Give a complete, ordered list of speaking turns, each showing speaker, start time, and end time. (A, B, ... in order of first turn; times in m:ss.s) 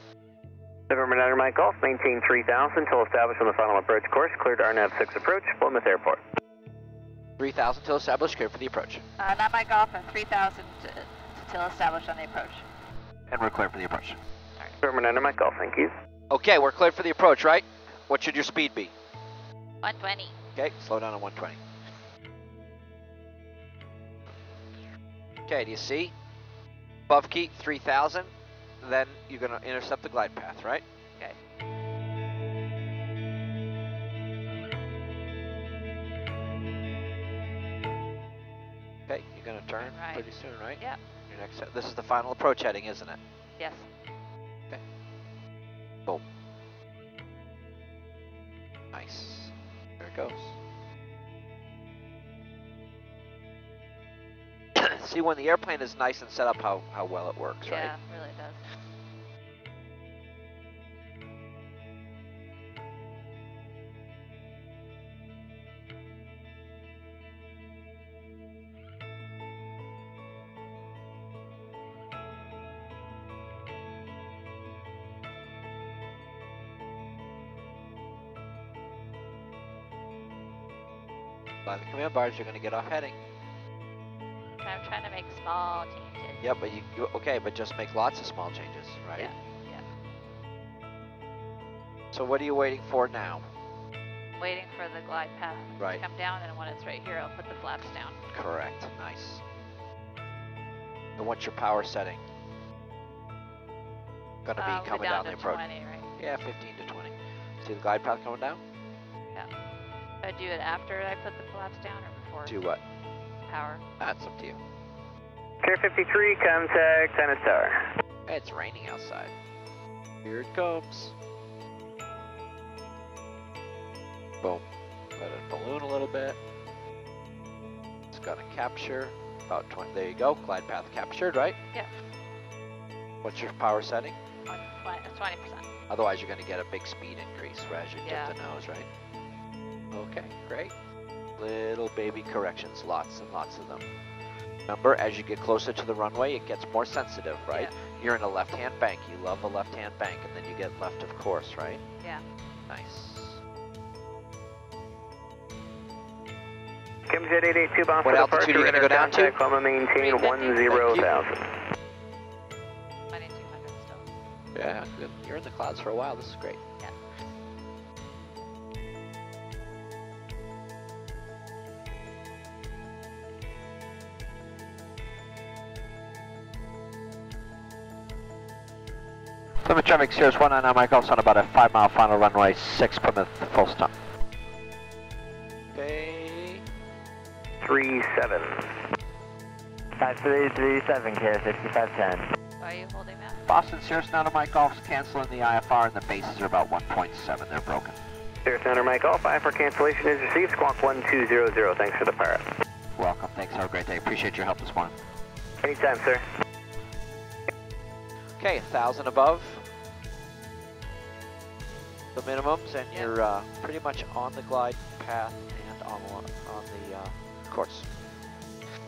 0:00.9-0:06.2 A
0:07.4-0:09.0 B
0:09.2-0:12.6 C
0:13.3-0:14.2 B
0:14.8-0:15.9 A
0:16.3-0:18.9 B
0:19.8-0:20.3 D
0:20.6-0:21.6 B
0:25.5-0:26.1 B
0:27.1-0:28.3 B
0:28.8-0:30.8 B
0:39.1-0:43.2 B
0:39.8-0:40.2 D
0:43.6-0:43.9 D
0:48.9-0:50.6 B
0:54.7-0:57.9 B
0:57.6-0:58.6 D
1:21.6-1:23.2 B
1:24.6-1:26.5 D
1:26.4-1:29.3 B
1:29.2-1:29.8 D
1:32.1-1:33.4 B
1:34.4-1:38.2 D
1:38.3-1:39.4 B
1:41.2-1:42.2 B
1:44.4-1:45.6 B
1:44.6-1:46.1 D
1:46.2-1:48.6 B
1:50.2-1:52.6 D
1:52.4-1:52.8 B
1:53.5-1:53.8 D
1:54.0-1:54.6 B
1:55.6-1:57.8 A
1:58.3-1:59.3 B
2:00.2-2:01.1 B
2:05.2-2:06.4 B
2:08.1-2:11.6 B
2:13.2-2:14.2 B
2:14.5-2:15.6 D
2:15.9-2:18.9 B
2:18.0-2:18.3 D
2:19.9-2:20.7 B
2:21.4-2:23.9 B
2:24.7-2:31.8 B
2:27.5-2:27.7 D
2:32.7-2:33.4 B
2:37.1-2:41.4 A
2:38.0-2:39.4 B
2:40.0-2:41.0 D
2:40.6-2:41.1 B
2:43.1-2:44.1 D
2:44.5-2:46.6 B
2:59.6-3:03.9 B
3:05.7-3:06.6 B
3:07.6-3:08.7 A
3:10.0-3:12.2 E
3:12.6-3:13.4 D
3:13.4-3:18.0 B
3:18.4-3:22.5 A
3:23.0-3:24.9 B
3:25.6-3:26.2 A
3:28.4-3:29.6 B
3:32.1-3:37.9 B